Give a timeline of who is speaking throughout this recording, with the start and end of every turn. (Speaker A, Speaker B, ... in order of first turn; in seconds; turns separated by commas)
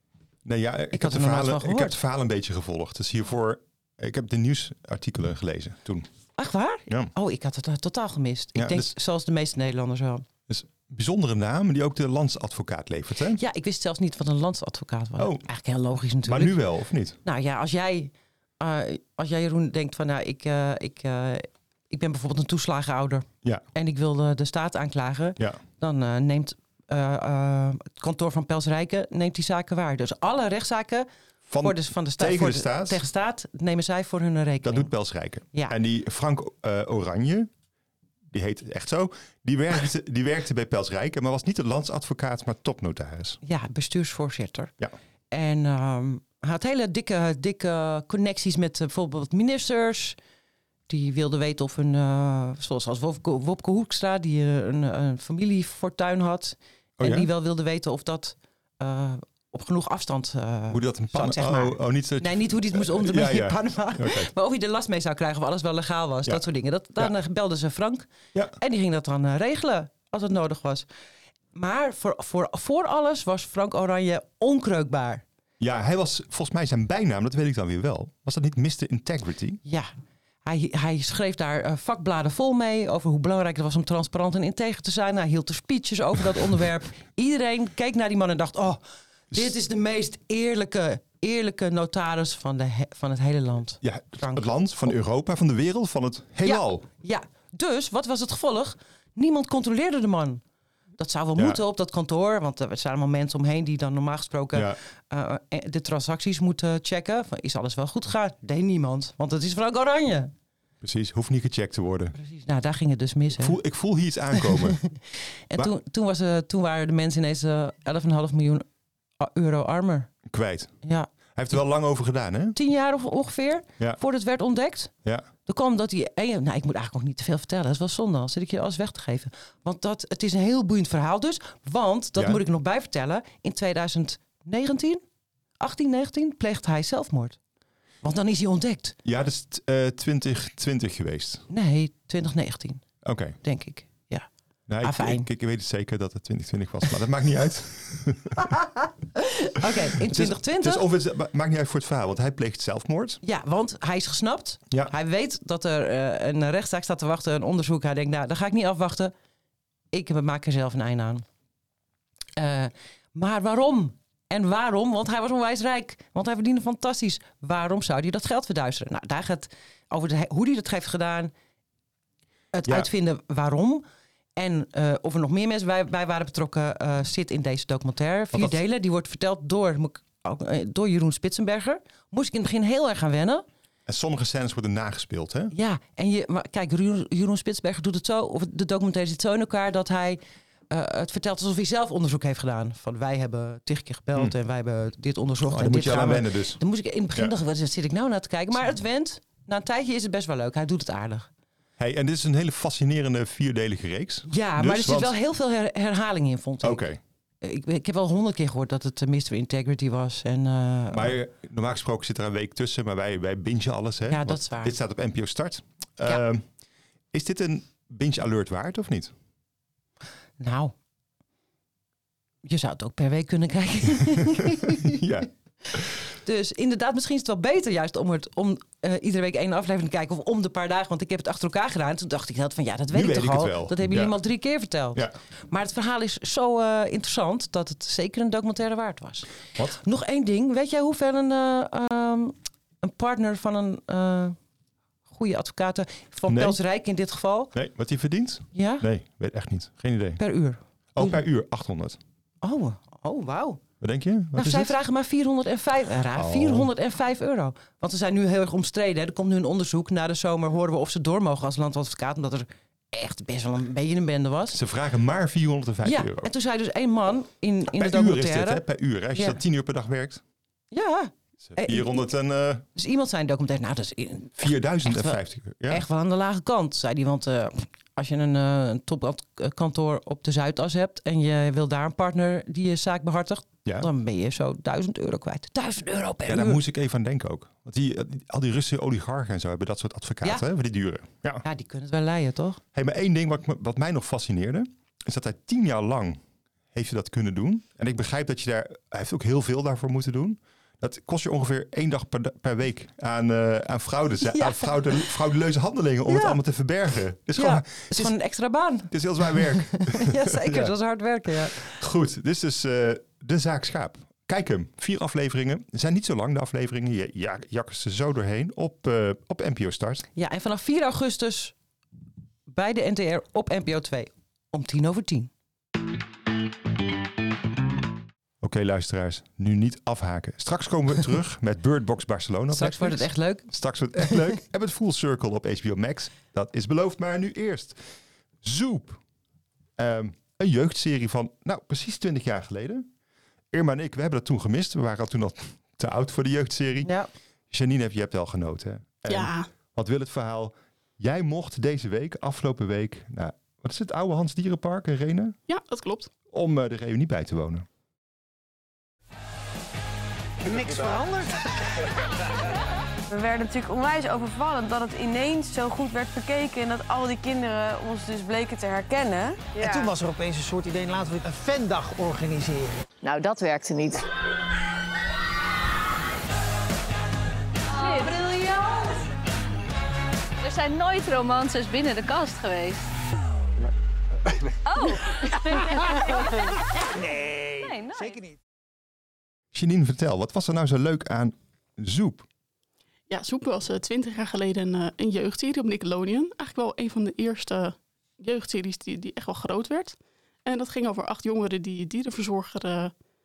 Speaker A: 0.4-6.1, Speaker B: 0.9-2.0, Speaker B: 6.4-10.2, Speaker A: 6.9-7.1, Speaker A: 8.5-8.9, Speaker A: 10.5-13.4, Speaker B: 13.4-16.6, Speaker A: 15.2-15.4, Speaker A: 16.2-17.2, Speaker B: 17.2-31.1, Speaker A: 31.5-33.0, Speaker B: 31.6-34.9, Speaker A: 34.6-37.5, Speaker A: 38.3-43.4, Speaker B: 43.4-44.7, Speaker B: 45.3-50.2, Speaker B: 50.9-70.8, Speaker A: 57.0-57.3, Speaker A: 60.7-64.3, Speaker B: 71.5-75.2, Speaker A: 75.6-79.6, Speaker B: 79.6-79.9, Speaker B: 80.4-88.8, Speaker B: 89.3-94.5, Speaker A: 93.8-96.8, Speaker B: 96.4-100.4, Speaker B: 101.0-110.3, Speaker A: 104.5-104.8, Speaker A: 110.8-112.2, Speaker B: 112.2-113.6, Speaker A: 113.3-114.8, Speaker B: 114.5-114.8, Speaker B: 115.5-118.6, Speaker B: 119.2-120.1, Speaker A: 120.2-120.7, Speaker B: 120.8-121.1, Speaker A: 121.3-122.5, Speaker B: 122.5-124.9, Speaker B: 125.5-135.0, Speaker A: 132.2-132.4, Speaker B: 135.6-137.4, Speaker B: 138.0-138.9, Speaker A: 139.0-141.4, Speaker B: 141.5-142.8, Speaker A: 143.0-143.4, Speaker B: 143.4-144.3, Speaker A: 144.7-148.4, Speaker B: 144.8-145.3, Speaker B: 148.4-150.8, Speaker A: 149.6-153.2, Speaker B: 153.2-159.1, Speaker B: 159.9-161.2, Speaker B: 162.4-171.3, Speaker B: 172.5-173.8, Speaker B: 174.3-183.4, Speaker A: 178.3-178.6, Speaker A: 183.8-185.5, Speaker B: 185.5-201.3, Speaker A: 195.4-196.6, Speaker A: 201.8-205.2, Speaker B: 204.3-206.8, Speaker A: 206.6-207.0, Speaker B: 207.4-211.1, Speaker A: 210.9-216.4, Speaker B: 214.1-214.8, Speaker A: 217.1-219.1, Speaker B: 220.4-220.7, Speaker B: 222.4-225.0, Speaker A: 224.1-226.0, Speaker B: 226.2-244.3, Speaker A: 232.9-234.2, Speaker B: 245.1-247.5, Speaker A: 246.3-246.6, Speaker A: 247.5-250.2, Speaker B: 248.5-248.8, Speaker B: 250.2-251.2, Speaker A: 250.9-252.0, Speaker B: 252.4-253.6, Speaker A: 253.8-254.7, Speaker B: 254.3-264.6, Speaker A: 256.1-256.7, Speaker A: 264.5-266.3, Speaker B: 265.8-269.4, Speaker A: 267.7-270.2, Speaker B: 270.7-272.1, Speaker A: 271.4-272.6, Speaker B: 272.7-286.6, Speaker A: 274.4-275.9, Speaker A: 286.3-291.4, Speaker B: 291.4-292.6, Speaker A: 292.7-296.2, Speaker A: 296.7-308.1, Speaker B: 304.2-305.1, Speaker B: 306.1-306.4, Speaker B: 307.4-311.8, Speaker A: 308.9-310.7, Speaker A: 311.3-320.1, Speaker B: 320.1-321.5, Speaker B: 322.5-325.3, Speaker A: 328.4-337.8, Speaker B: 332.5-333.5, Speaker A: 338.4-339.0, Speaker A: 339.8-342.9, Speaker A: 343.5-346.9, Speaker B: 346.8-347.1, Speaker A: 347.5-355.4, Speaker C: 349.1-349.5, Speaker C: 355.5-356.1, Speaker A: 356.3-357.6, Speaker D: 360.4-361.5, Speaker E: 363.1-369.9, Speaker D: 369.6-372.8, Speaker F: 377.7-378.2, Speaker B: 377.8-378.8, Speaker F: 380.4-382.8, Speaker F: 384.6-385.8, Speaker D: 387.1-388.2, Speaker F: 387.6-388.2, Speaker A: 389.5-392.2, Speaker C: 393.1-402.9